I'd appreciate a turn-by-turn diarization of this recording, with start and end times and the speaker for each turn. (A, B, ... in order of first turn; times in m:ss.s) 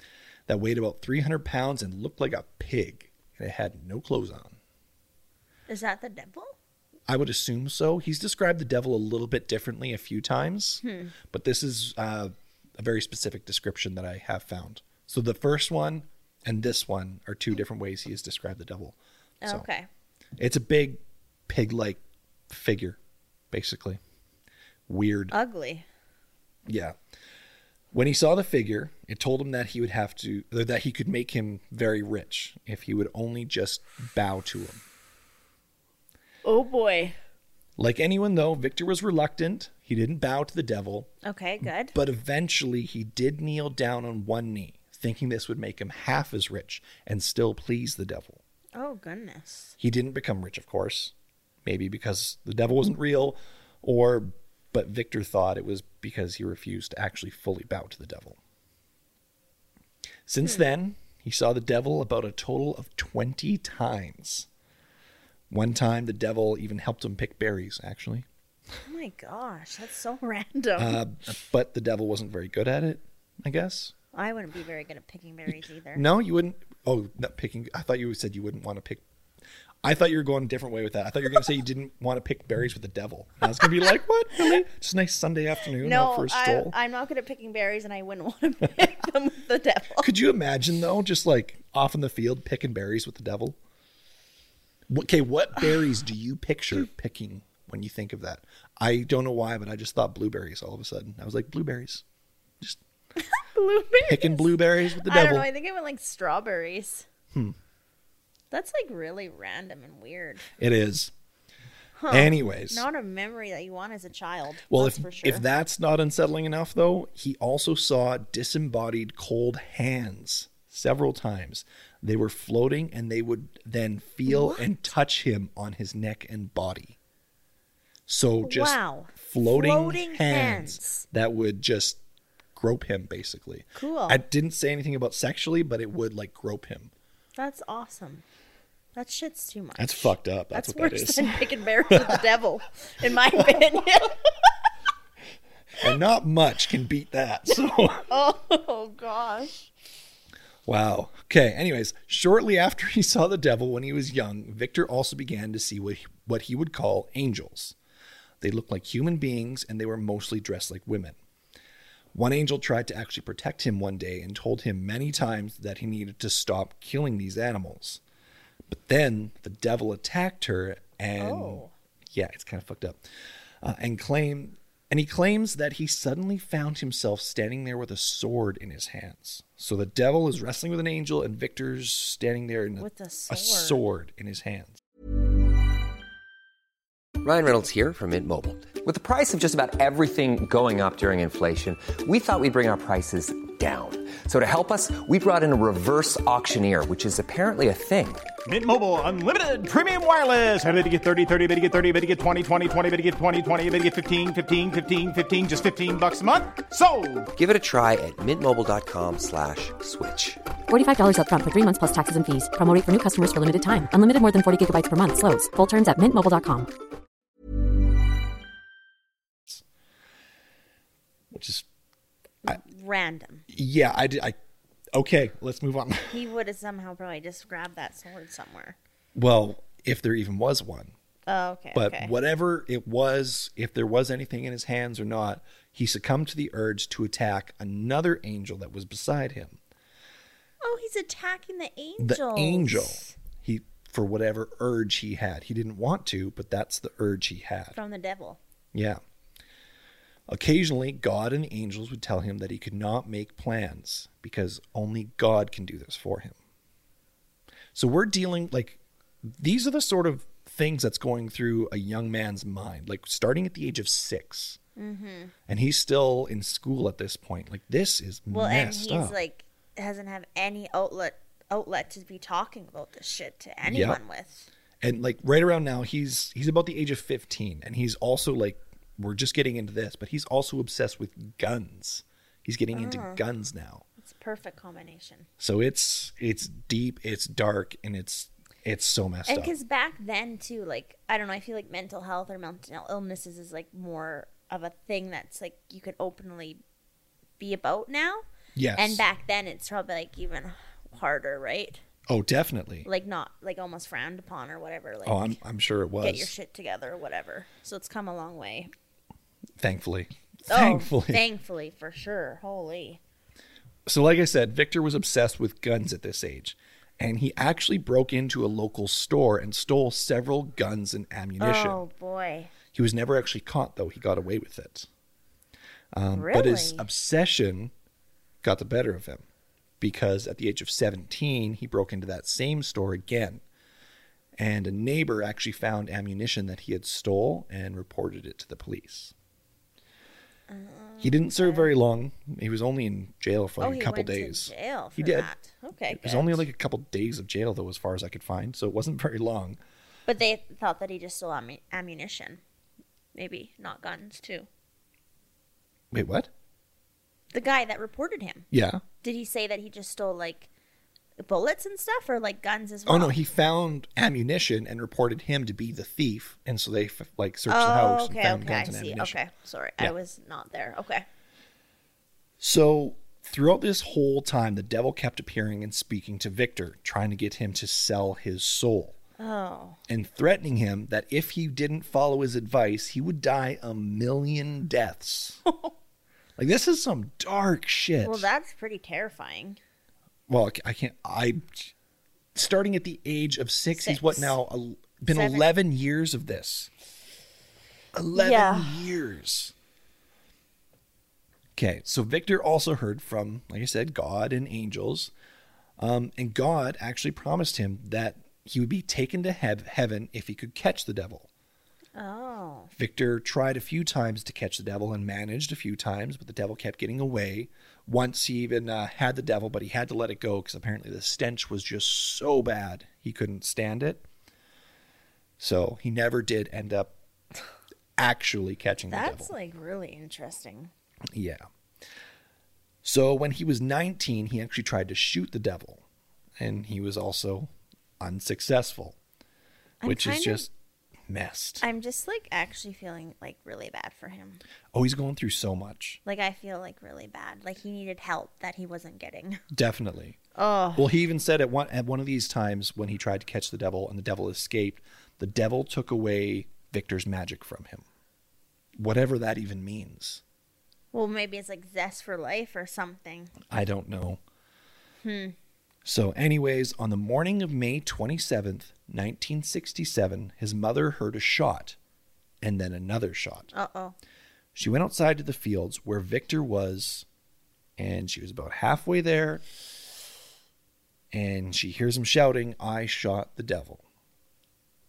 0:00.5-0:04.6 A
0:05.7-0:06.6 B
0:07.1-0:19.7 A
0:10.8-0:11.1 B
0:19.4-0:19.9 B
0:20.4-0:23.0 A
0:23.5-0:24.0 A
0:24.9-0:25.3 A
0:25.3-0:25.9 B
0:26.7-0:27.0 A
0:27.9-0:34.8 A
0:36.4-0:37.2 B
0:37.8-0:41.1 A
0:41.2-0:42.0 B
0:41.6-0:48.4 A
0:48.8-0:49.8 B
0:49.8-0:51.1 A
0:51.6-0:58.4 A
1:00.3-1:04.5 A
1:05.5-1:08.3 A
1:08.8-1:11.0 B
1:10.8-1:13.9 A
1:14.1-1:16.0 B
1:16.0-1:19.0 A
1:19.8-1:26.8 A
1:25.8-1:30.1 B
1:30.0-1:33.6 A
1:34.9-1:42.0 A
1:43.2-1:47.1 B
1:44.0-1:45.5 A
1:47.3-1:47.6 A
1:48.5-1:50.5 B
1:50.6-1:51.1 A
1:52.0-1:55.4 B
1:52.1-1:52.9 A
1:54.7-2:07.0 A
2:04.3-2:04.7 B
2:08.1-2:12.0 A
2:08.4-2:11.0 B
2:12.6-2:16.9 A
2:13.8-2:14.2 B
2:17.4-2:18.2 B
2:19.0-2:24.5 B
2:19.8-2:22.2 A
2:23.4-2:23.6 A
2:25.8-2:28.1 A
2:28.1-2:29.7 B
2:30.6-2:37.8 A
2:38.4-2:41.2 A
2:42.1-2:48.0 A
2:48.7-2:53.0 A
2:51.2-2:51.7 B
2:53.6-3:04.8 A
3:02.8-3:03.8 B
3:07.2-3:18.3 C
3:18.4-3:27.3 D
3:27.4-3:30.4 C
3:30.7-3:36.7 E
3:41.3-3:41.7 A
3:42.4-3:43.4 B
3:43.5-3:44.4 A
3:44.9-3:46.2 A
3:46.1-3:48.8 B
3:49.2-3:50.9 A
3:51.3-3:52.1 B
3:51.7-3:59.6 A
4:00.6-4:03.1 B
4:02.0-4:07.8 A
4:07.7-4:08.4 B
4:08.7-4:09.0 A
4:10.3-4:16.4 A
4:17.7-4:24.6 A
4:24.8-4:25.3 B
4:25.5-4:29.2 A
4:28.3-4:34.5 B
4:33.6-4:34.0 A
4:34.8-4:43.8 A
4:42.7-4:43.2 B
4:44.0-4:45.3 B
4:45.4-4:49.6 A
4:49.3-4:56.6 B
4:57.4-4:58.2 B
4:58.6-4:59.0 A
4:58.8-5:01.8 B
5:02.1-5:02.9 A
5:02.8-5:05.4 B
5:05.1-5:06.3 A
5:06.0-5:08.7 B
5:09.6-5:11.2 A
5:10.5-5:13.0 B
5:13.9-5:21.8 A
5:21.4-5:22.5 B
5:22.7-5:24.9 A
5:25.9-5:27.7 A
5:26.1-5:26.8 B
5:28.4-5:29.2 A
5:29.8-5:33.4 A
5:34.4-5:39.1 A
5:40.5-5:41.7 B
5:41.0-5:45.3 A
5:43.6-5:46.5 B
5:45.9-5:49.6 A
5:50.1-5:52.4 B
5:53.2-5:54.5 B
5:55.9-5:56.3 A
5:57.3-5:58.5 B
5:58.5-5:58.8 A
5:59.0-6:00.5 B
6:01.2-6:03.2 B
6:02.9-6:09.2 A
6:07.5-6:11.0 B
6:12.4-6:19.0 A
6:19.2-6:19.8 B
6:19.9-6:25.4 A
6:25.5-6:25.7 B
6:26.4-6:28.3 A
6:28.0-6:29.6 B
6:30.3-6:31.7 A
6:32.4-6:36.7 A
6:33.7-6:34.4 B
6:35.1-6:35.5 B
6:37.9-6:39.5 A
6:38.2-6:38.8 B
6:41.6-6:45.1 A
6:45.8-6:51.3 A
6:52.0-6:52.7 B
6:52.8-7:04.1 A
7:05.4-7:07.0 A
7:08.0-7:09.3 A
7:08.9-7:10.7 B
7:11.1-7:11.4 A
7:12.8-7:15.8 A
7:16.4-7:19.0 A
7:19.8-7:20.5 B
7:19.8-7:20.5 A
7:21.1-7:21.6 A
7:21.6-7:24.4 B
7:24.7-7:26.0 A
7:26.0-7:29.4 B
7:29.5-7:30.2 A
7:30.4-7:30.9 B
7:30.8-7:37.8 A
7:38.8-7:40.2 A
7:40.9-7:43.4 B
7:43.5-7:44.2 A
7:45.0-7:45.4 B
7:45.8-7:51.8 A
7:52.4-7:53.5 A
7:53.5-7:54.0 B
7:54.6-7:57.1 A
7:57.8-7:59.4 A
8:01.1-8:03.8 A